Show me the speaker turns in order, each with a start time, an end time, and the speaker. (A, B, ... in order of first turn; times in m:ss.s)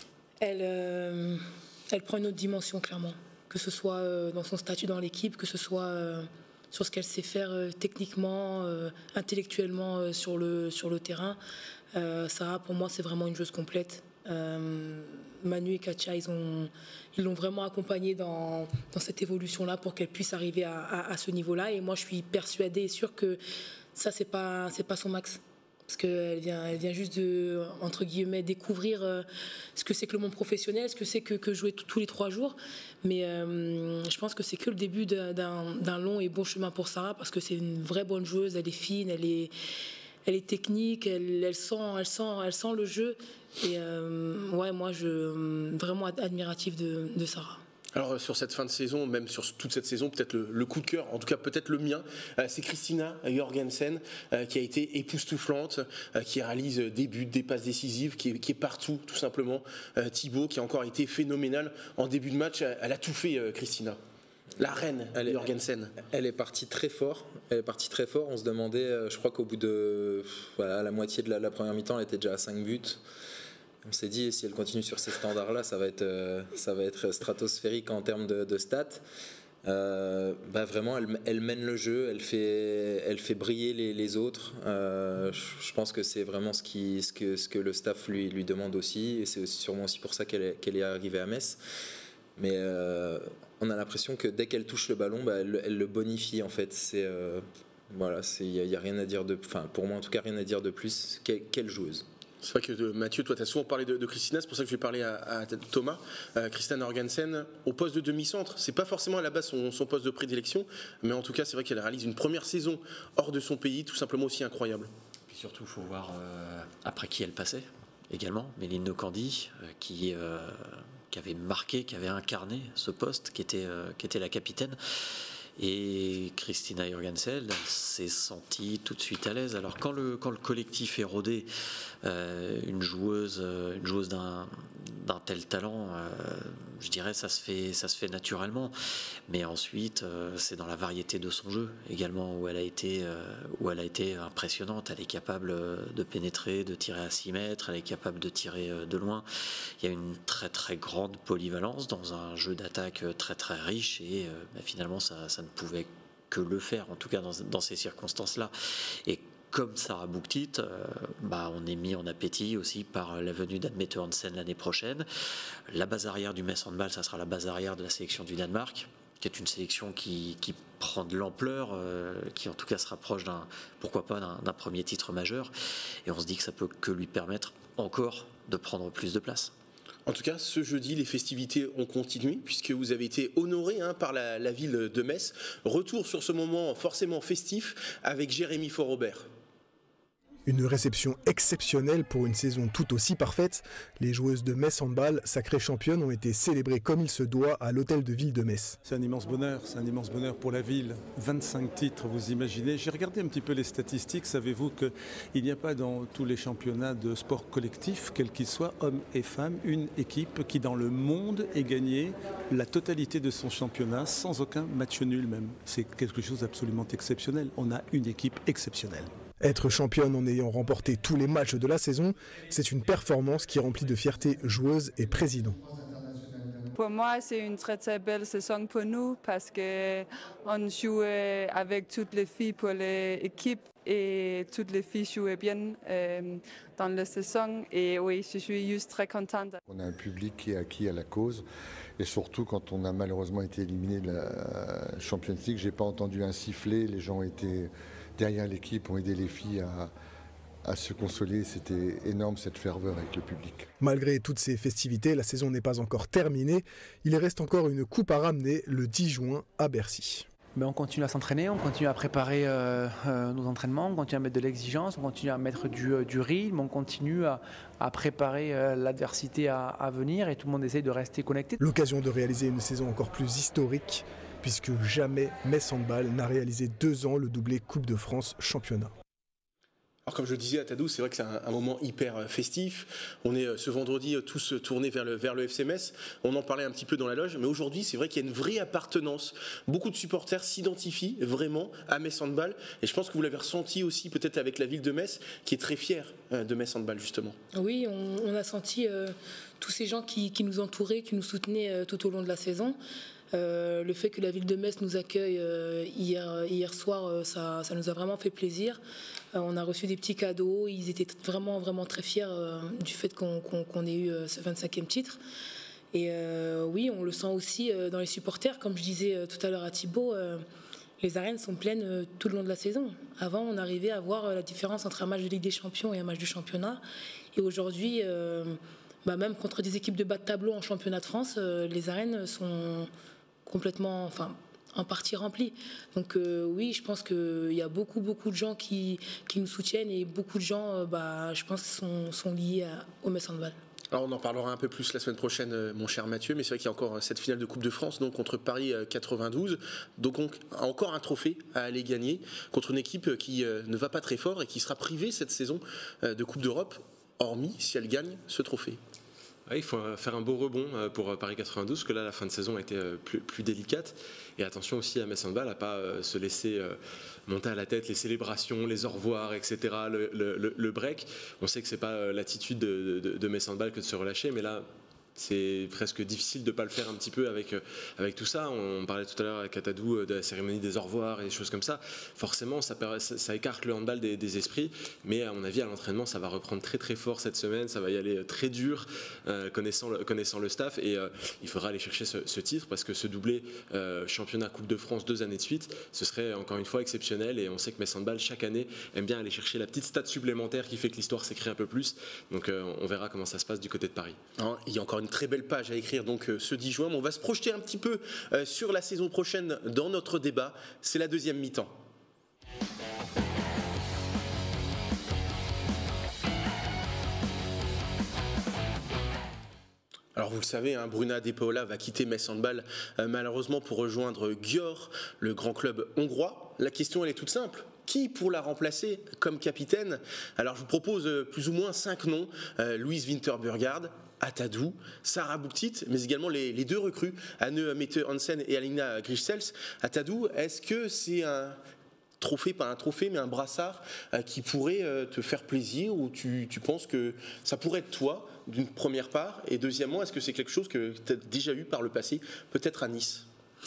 0:00.4-0:11.4 A
0:11.9-0:23.4 A
0:23.9-0:39.5 A
0:40.2-0:47.6 A
0:47.9-1:04.0 B
1:04.6-1:05.9 B
1:05.2-1:05.5 C
1:06.0-1:13.0 C
1:13.8-1:19.0 C
1:19.6-1:31.6 C
1:32.4-1:42.0 C
1:42.4-1:54.9 B
1:55.3-2:04.8 D
2:05.6-2:11.5 D
2:12.0-2:18.7 D
2:19.3-2:29.3 D
2:29.8-2:38.5 D
2:39.0-2:45.1 D
2:45.7-2:55.5 D
2:56.0-2:59.5 D
3:00.0-3:09.3 B
3:10.5-3:18.8 E
3:18.8-3:39.1 F
3:39.4-3:45.6 E
3:46.8-3:59.6 G
3:59.7-4:01.4 H
4:02.0-4:09.9 H
4:10.6-4:13.7 H
4:13.8-4:20.3 E
4:20.5-4:31.6 I
4:31.6-4:38.9 E
4:40.0-4:57.4 B
4:57.5-5:02.8 A
5:03.3-5:08.8 A
5:09.3-5:15.2 A
5:15.9-5:20.4 A
5:21.0-5:26.8 A
5:27.3-5:32.9 A
5:33.4-5:43.6 A
5:43.9-5:58.8 B
5:59.5-6:44.2 J
6:44.4-6:51.8 B
7:00.2-7:21.6 B
7:22.2-7:33.2 B